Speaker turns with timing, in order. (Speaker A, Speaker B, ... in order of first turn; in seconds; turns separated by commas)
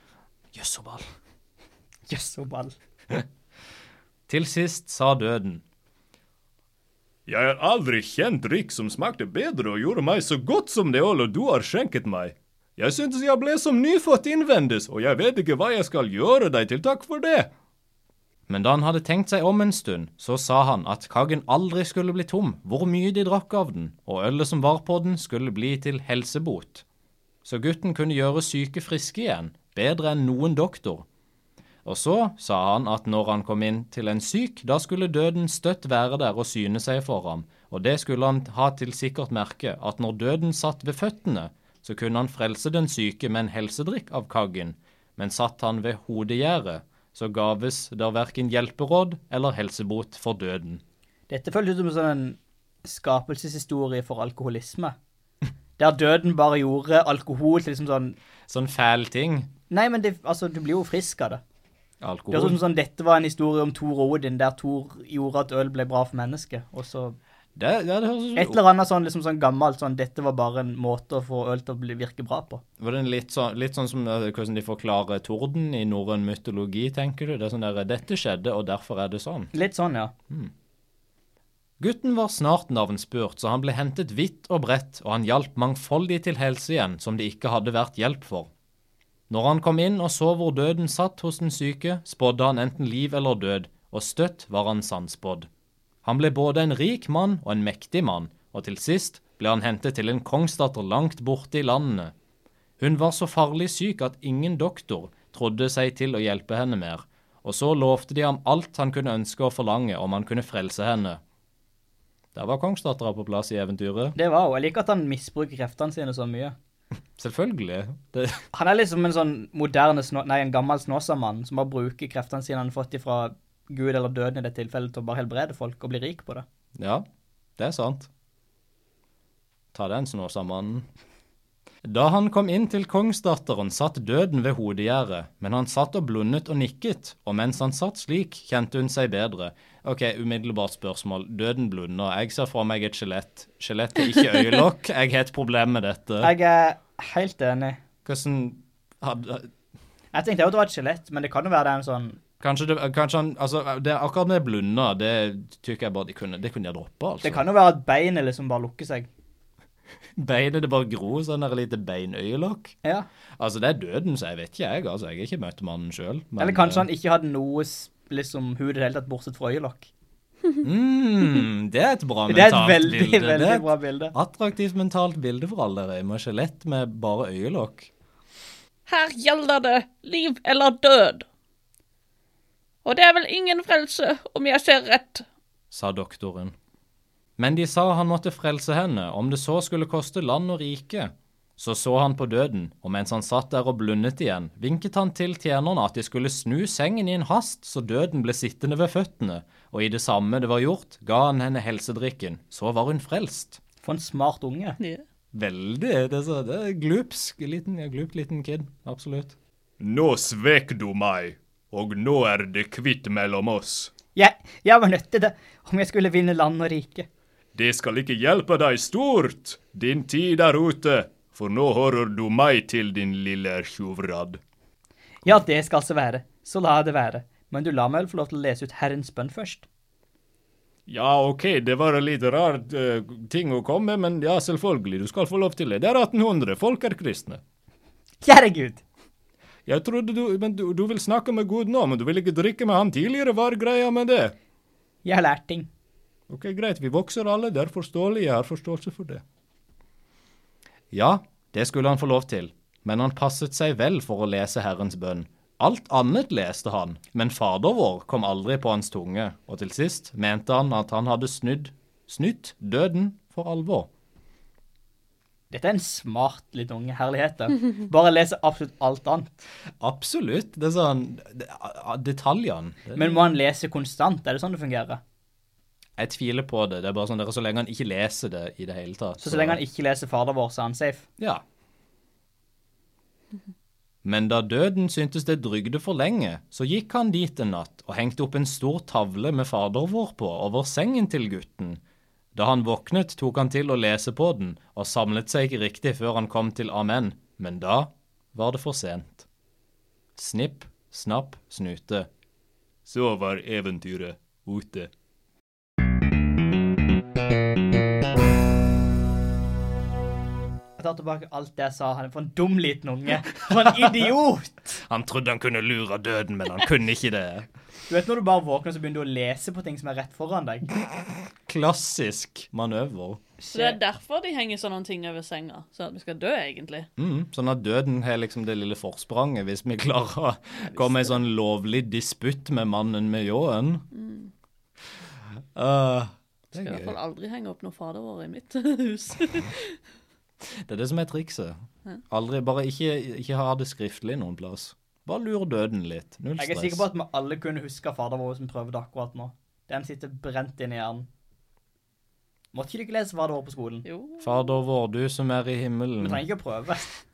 Speaker A: 0.5-1.0, Speaker B: 2.1-2.7, Speaker A: 4.3-5.6, Speaker C: 7.3-17.5, Speaker A: 18.5-26.8, Speaker A: 27.4-31.1, Speaker A: 31.8-50.8, Speaker B: 51.3-55.0, Speaker B: 55.8-58.2, Speaker A: 58.5-59.5, Speaker B: 59.7-61.4, Speaker A: 62.0-62.6, Speaker B: 62.3-67.2, Speaker A: 67.5-68.6, Speaker B: 68.3-72.6, Speaker A: 72.8-79.5, Speaker B: 79.5-80.1, Speaker A: 81.8-88.5, Speaker A: 89.3-95.5, Speaker A: 96.0-102.1, Speaker A: 102.8-111.2, Speaker A: 112.3-114.2, Speaker B: 114.2-116.5, Speaker A: 117.2-118.4, Speaker B: 118.5-126.4, Speaker A: 126.8-127.0, Speaker A: 127.6-128.1, Speaker A: 129.7-130.9, Speaker A: 131.8-146.3, Speaker B: 146.2-147.8, Speaker A: 148.0-149.5, Speaker B: 150.1-152.2, Speaker A: 152.4-157.4, Speaker B: 157.2-159.1, Speaker A: 160.2-162.8, Speaker A: 163.4-166.9, Speaker B: 166.4-169.9, Speaker A: 170.6-177.9, Speaker B: 172.3-174.1, Speaker D: 178.9-181.2, Speaker D: 182.8-185.2, Speaker A: 185.7-186.5, Speaker A: 187.4-203.6, Speaker B: 203.8-204.8, Speaker A: 205.3-209.3, Speaker C: 209.8-213.9, Speaker B: 214.1-217.1, Speaker C: 217.5-224.4, Speaker B: 225.2-229.7, Speaker C: 230.9-237.4, Speaker B: 238.2-238.8, Speaker C: 239.7-244.3, Speaker B: 245.0-245.7, Speaker C: 246.3-249.2, Speaker A: 250.9-263.9, Speaker B: 265.5-269.3, Speaker A: 269.8-273.1, Speaker B: 272.9-275.0, Speaker A: 276.0-279.6, Speaker B: 279.2-281.1, Speaker A: 284.0-291.8, Speaker A: 292.3-299.2, Speaker A: 300.1-302.1, Speaker C: 302.9-304.9, Speaker B: 310.8-314.8, Speaker A: 314.8-317.5, Speaker B: 317.9-320.8, Speaker A: 321.4-323.2, Speaker B: 323.4-323.8, Speaker D: 323.5-326.9, Speaker A: 327.0-333.8, Speaker D: 333.9-334.3, Speaker A: 335.5-336.9, Speaker D: 336.5-339.8, Speaker A: 340.4-346.8, Speaker B: 346.4-351.1, Speaker B: 352.5-353.8, Speaker D: 353.8-354.5, Speaker A: 354.2-356.2, Speaker B: 356.0-357.0